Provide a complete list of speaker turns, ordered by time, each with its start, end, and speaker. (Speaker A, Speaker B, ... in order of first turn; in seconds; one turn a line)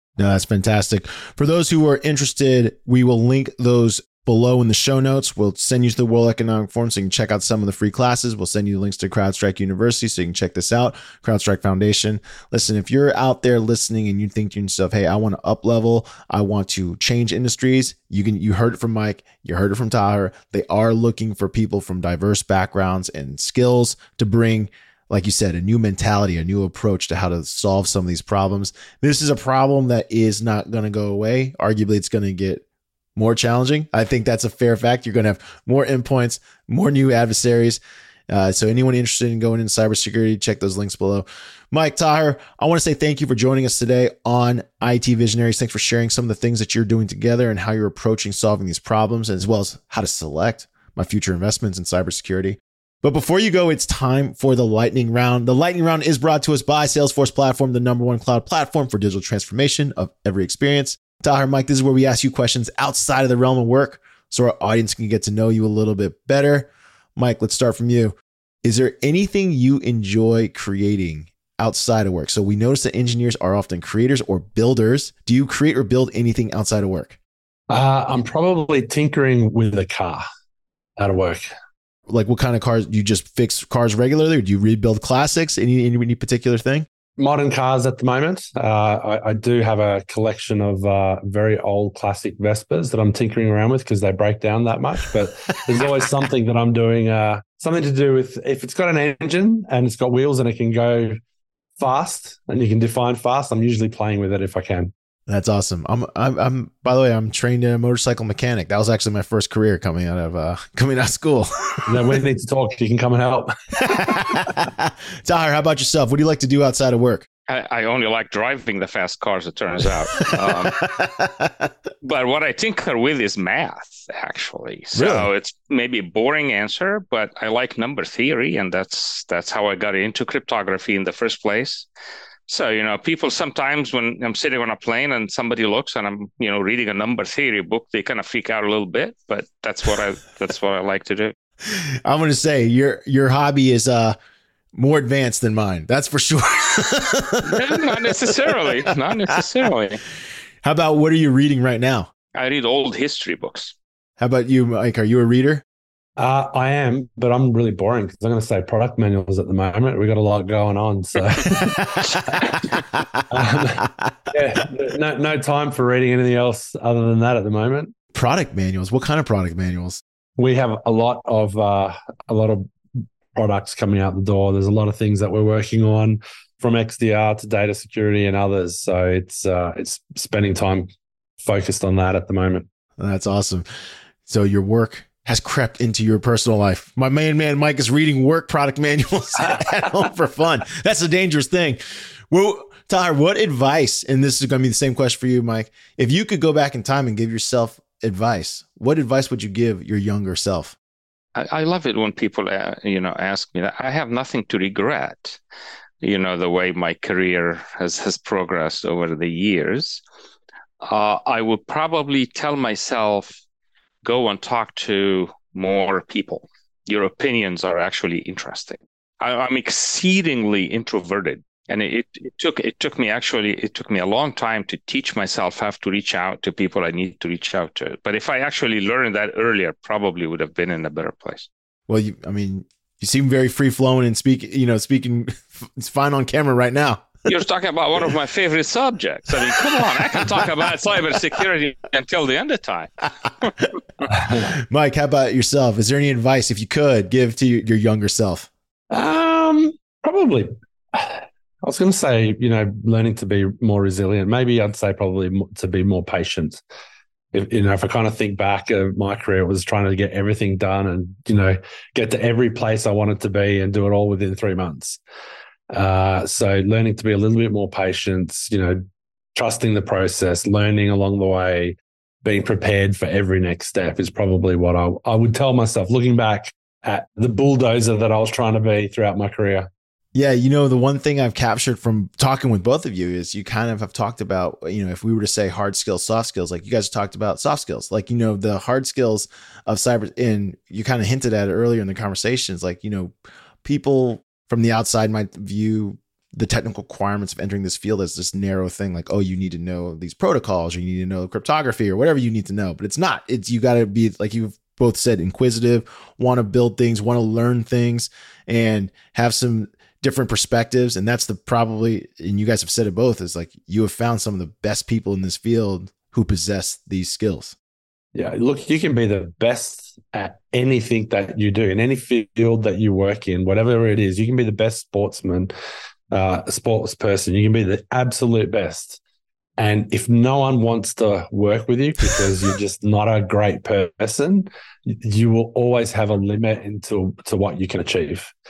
Speaker A: 0.2-32.6
Speaker A: 33.2-77.2
Speaker B: 77.7-80.2
Speaker B: 81.0-81.5
Speaker A: 82.1-86.9
Speaker B: 87.2-101.2
Speaker B: 101.8-104.9
Speaker A: 105.3-112.2
Speaker B: 111.9-114.6
Speaker A: 113.8-117.3
Speaker C: 117.5-120.8
Speaker A: 120.3-121.7
Speaker C: 122.0-131.9
Speaker A: 124.9-125.3
Speaker C: 132.5-141.3
Speaker A: 141.7-144.2
Speaker A: 144.8-148.9
Speaker C: 147.4-150.0
Speaker A: 150.6-152.1
Speaker C: 152.3-153.7
Speaker A: 154.2-155.6
Speaker B: 156.2-167.9
Speaker A: 161.5-163.3
Speaker A: 168.1-170.0
Speaker B: 170.4-172.7
Speaker B: 173.3-180.9
Speaker B: 181.4-182.7
Speaker A: 183.0-183.7
Speaker A: 184.3-200.8
Speaker B: 189.5-189.8
Speaker C: 201.3-205.4
Speaker C: 206.0-210.0
Speaker C: 210.8-213.4
Speaker C: 214.0-231.5
Speaker A: 231.9-237.1
Speaker C: 237.3-243.6
Speaker A: 239.5-240.3
Speaker A: 244.3-248.5
Speaker B: 248.9-256.6
Speaker B: 257.3-265.0
Speaker B: 265.7-268.8
Speaker B: 269.4-279.7
Speaker A: 280.1-293.1
Speaker A: 293.6-317.6
Speaker B: 318.1-325.5
Speaker B: 326.1-329.0
Speaker B: 329.6-338.3